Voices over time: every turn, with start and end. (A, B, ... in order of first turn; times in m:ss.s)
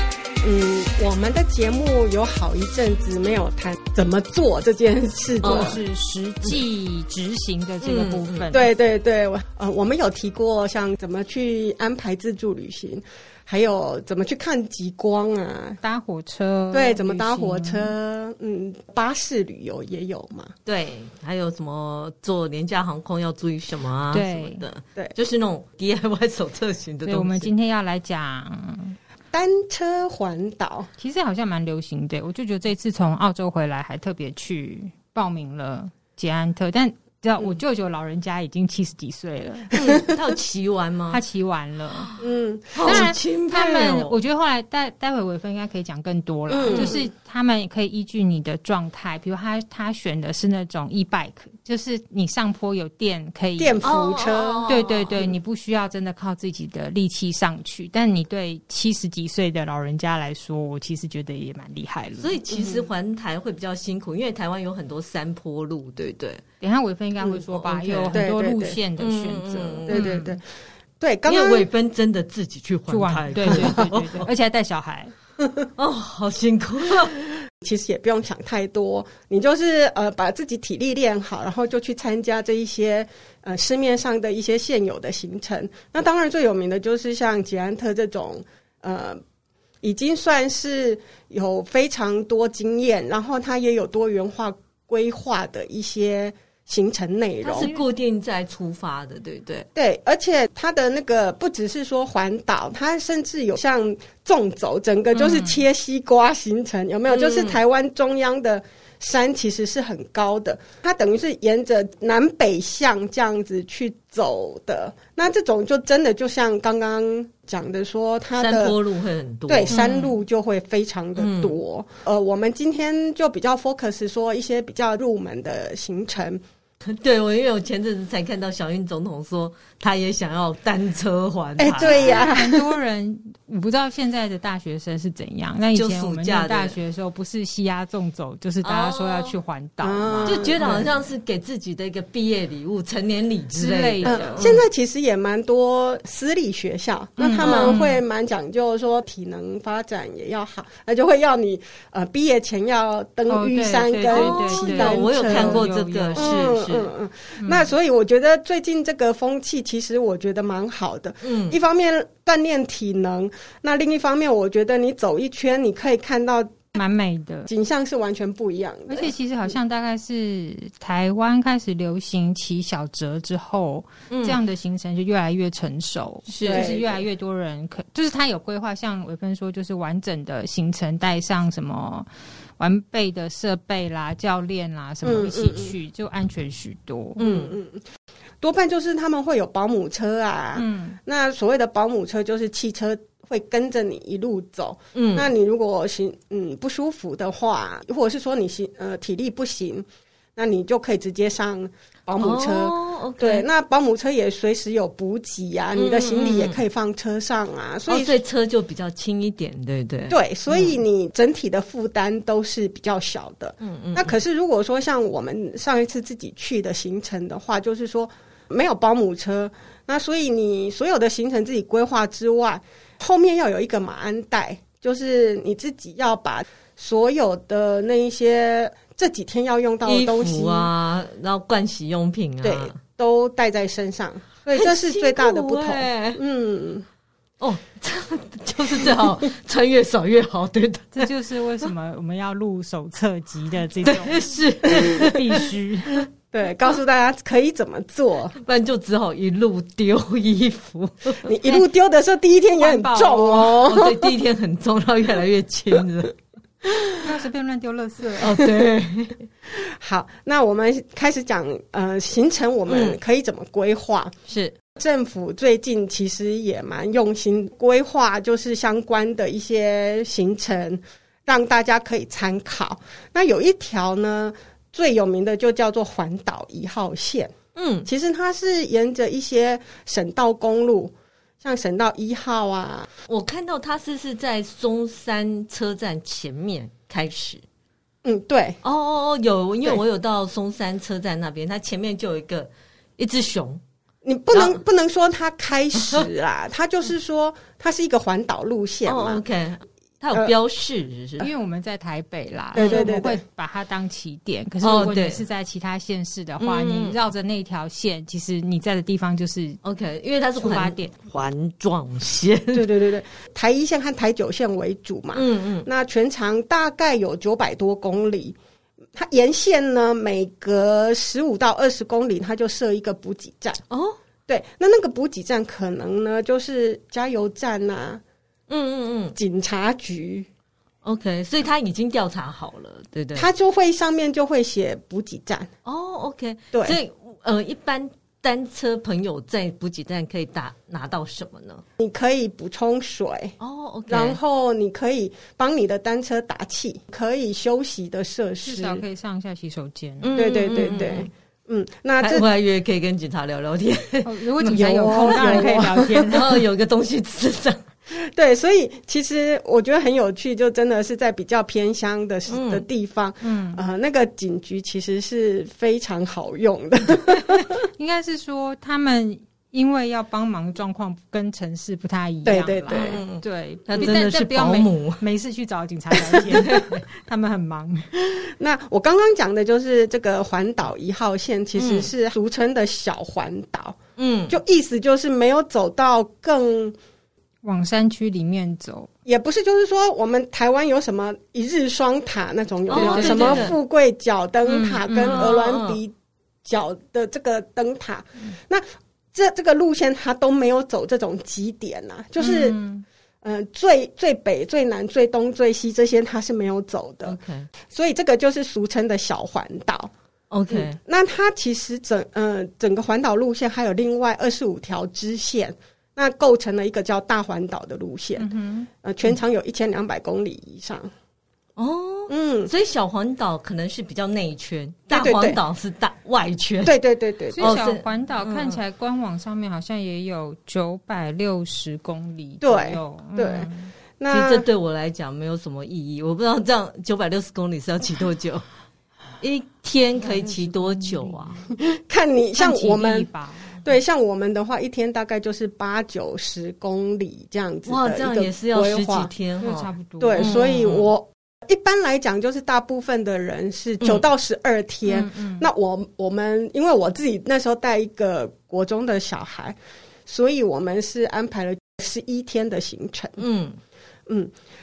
0:00.4-0:05.8 A
0:05.4-0:05.8 B
0:05.4-0:08.7 C
0:07.8-0:08.5 B
0:08.5-0:15.8 A
0:15.8-0:17.9 C
0:16.7-0:20.5 A
0:20.7-0:27.5 B
0:24.1-0:24.7 C
0:27.0-0:29.0 C
0:29.3-0:30.9 A
0:31.0-0:39.8 C
0:39.7-0:41.2 B
0:39.8-0:40.1 A
0:41.1-0:42.1 C
0:41.9-0:42.2 B
0:42.2-0:43.1 A
0:42.8-0:44.2 B
0:42.8-0:53.9 C
0:46.5-0:47.0 A
0:46.7-0:47.0 B
0:53.6-0:54.7 A
0:53.8-0:55.3 B
0:54.7-1:02.4 C
1:02.2-1:06.4 B
1:02.5-1:02.8 A
1:06.6-1:10.4 C
1:07.5-1:08.2 B
1:08.1-1:08.8 A
1:09.0-1:10.2 B
1:09.9-1:10.4 A
1:11.0-1:11.7 A
1:11.3-1:14.3 B
1:12.9-1:15.1 C
1:13.4-1:13.8 A
1:15.8-1:17.2 B
1:17.6-1:29.2 A
1:29.8-1:37.7 A
1:37.4-1:39.7 B
1:39.8-1:58.8 A
1:45.2-1:45.6 C
1:47.1-1:47.6 B
1:58.4-2:00.1 B
1:59.5-2:06.4 A
1:59.7-2:00.0 C
2:01.2-2:01.6 B
2:06.8-2:12.3 B
2:11.6-2:12.7 A
2:11.8-2:20.8 C
2:15.7-2:16.8 B
2:18.6-2:19.4 B
2:19.8-2:20.9 A
2:20.3-2:24.6 B
2:23.6-2:24.5 C
2:24.0-2:46.7 A
2:27.2-2:28.0 C
2:27.4-2:27.8 B
2:33.3-2:36.4 C
2:34.1-2:36.9 B
2:37.4-2:37.7 C
2:41.2-2:41.6 B
2:46.8-2:47.5 C
2:47.5-2:49.5 A
2:48.9-3:07.2 C
2:54.1-2:54.4 B
2:56.3-2:56.8 B
2:56.5-2:57.0 A
3:05.0-3:05.8 A
3:07.2-3:07.5 B
3:07.2-3:07.8 A
3:08.4-3:28.2 A
3:10.6-3:11.0 C
3:14.9-3:15.3 B
3:22.2-3:23.5 B
3:25.8-3:26.6 B
3:27.9-3:30.8 B
3:30.1-3:50.7 A
3:33.6-3:34.2 B
3:49.8-3:52.8 B
3:52.4-3:56.8 A
3:54.5-3:56.2 B
3:57.4-4:01.1 B
4:00.9-4:06.0 C
4:03.8-4:05.5 B
4:06.3-4:08.4 A
4:08.4-4:11.3 B
4:11.2-4:14.1 A
4:12.6-4:13.6 C
4:13.6-4:16.1 B
4:17.0-4:18.4 C
4:18.2-4:19.2 B
4:19.5-4:24.1 A
4:22.7-4:23.0 B
4:24.3-4:24.6 B
4:24.8-4:37.3 A
4:37.6-4:37.9 B
4:37.8-4:42.9 A
4:43.1-4:47.4 B
4:48.0-4:48.6 A
4:48.6-4:53.6 B
4:54.0-4:59.2 A
4:54.3-4:54.6 B
4:55.8-4:56.1 B
4:58.9-5:01.3 B
5:01.2-5:09.6 C
5:02.5-5:03.2 A
5:02.6-5:02.9 B
5:04.6-5:05.2 B
5:06.4-5:07.0 B
5:09.6-5:12.7 B
5:10.4-5:11.0 C
5:12.5-5:18.4 A
5:15.1-5:15.7 B
5:19.0-5:23.6 A
5:23.7-5:24.0 B
5:24.3-5:28.0 A
5:28.5-5:29.2 B
5:29.2-5:30.3 A
5:30.8-5:33.3 B
5:33.2-5:35.5 A
5:35.6-5:41.6 B
5:36.5-5:36.8 A
5:41.8-5:43.4 A
5:43.4-5:44.2 B
5:43.9-5:48.8 A
5:48.4-5:50.3 C
5:50.0-5:51.1 B
5:50.2-5:52.3 A
5:52.0-5:57.6 B
5:54.0-5:56.4 C
5:54.5-5:56.2 A
5:57.9-6:07.6 A
6:02.3-6:02.6 B
6:03.2-6:03.6 C
6:07.8-6:17.9 C
6:12.2-6:13.0 A
6:12.7-6:15.0 B
6:16.1-6:16.4 A
6:16.2-6:16.8 B
6:18.0-6:23.8 A
6:21.6-6:21.9 B
6:24.0-6:24.4 B
6:24.3-6:26.8 A
6:27.4-6:28.9 C
6:29.1-6:35.9 A
6:32.7-6:33.5 B
6:32.7-6:33.5 C
6:34.5-6:35.8 B
6:36.4-6:42.6 A
6:42.2-6:42.8 C
6:43.2-6:47.2 A
6:47.0-6:47.5 B
6:47.7-6:49.9 A
6:50.3-6:50.8 B
6:50.5-6:58.3 A
6:58.2-6:58.7 C
6:58.8-7:00.9 A
7:01.6-7:06.8 B
7:02.1-7:02.5 A
7:04.9-7:05.4 A
7:06.6-7:07.6 A
7:07.4-7:13.7 C
7:07.4-7:08.6 B
7:12.4-7:14.4 A
7:14.1-7:18.4 B
7:19.2-7:21.4 B
7:20.0-7:21.5 C
7:21.6-7:23.1 A
7:22.4-7:23.6 C
7:23.6-7:29.1 A
7:27.7-7:30.9 B
7:29.4-7:30.4 C
7:30.0-7:43.2 A
7:34.9-7:35.5 C
7:43.2-7:43.6 B